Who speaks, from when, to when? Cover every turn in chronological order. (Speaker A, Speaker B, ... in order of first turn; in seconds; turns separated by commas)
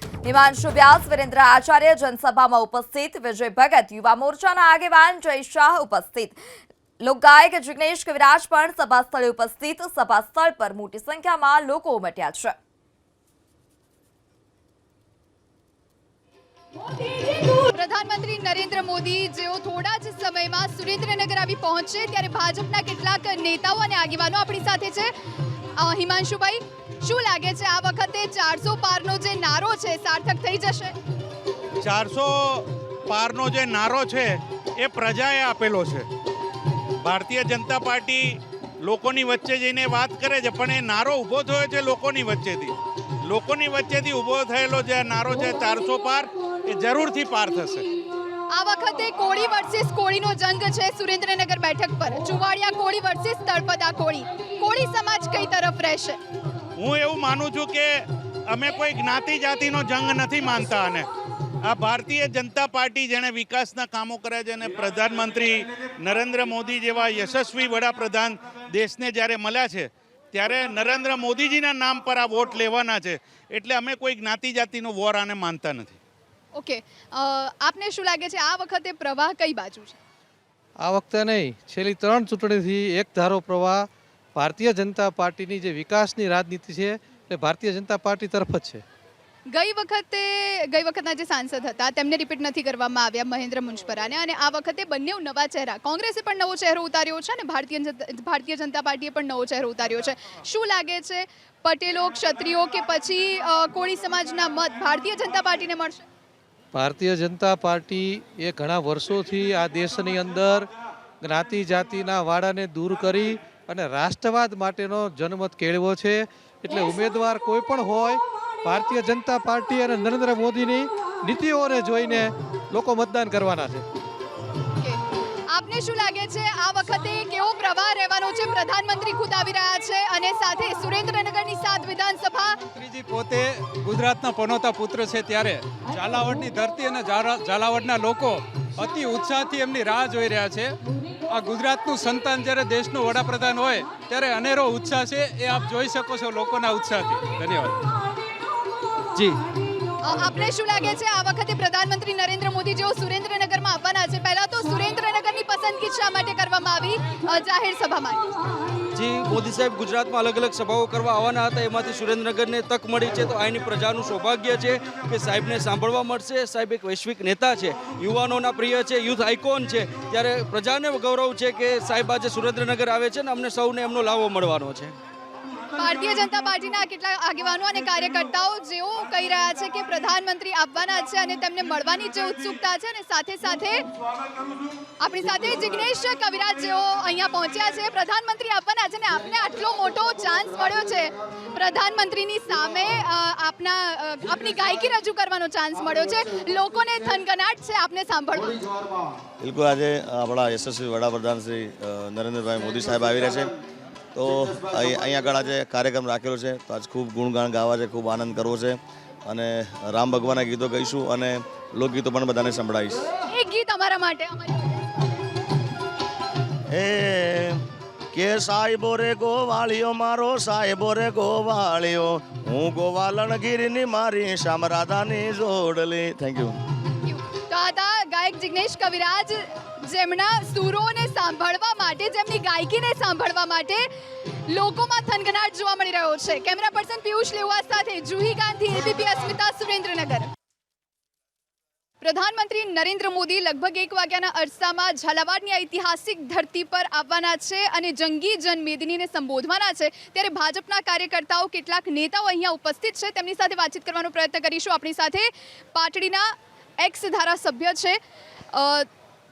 Speaker A: 0.2-6.3, Speaker A: 7.0-12.5, Speaker B: 17.2-25.1, Speaker B: 25.8-30.9, Speaker C: 31.8-36.1, Speaker C: 37.0-42.7, Speaker C: 43.2-47.9, Speaker B: 48.5-56.2, Speaker C: 56.8-61.1, Speaker C: 61.6-76.0, Speaker B: 76.5-80.0, Speaker D: 80.8-88.8, Speaker B: 89.5-106.0, Speaker D: 106.7-110.7, Speaker D: 111.2-123.8, Speaker B: 125.5-132.6, Speaker E: 132.7-140.8, Speaker E: 141.3-147.8, Speaker B: 150.0-158.3, Speaker F: 158.9-174.9, Speaker B: 175.8-183.8, Speaker B: 185.0-198.6, Speaker G: 199.4-203.5, Speaker G: 204.1-213.0, Speaker B: 213.3-215.1, Speaker G: 216.7-217.6, Speaker G: 218.1-226.5, Speaker B: 227.0-233.8, Speaker B: 234.5-240.3, Speaker B: 242.0-256.3, Speaker B: 256.8-258.0, Speaker B: 258.5-258.9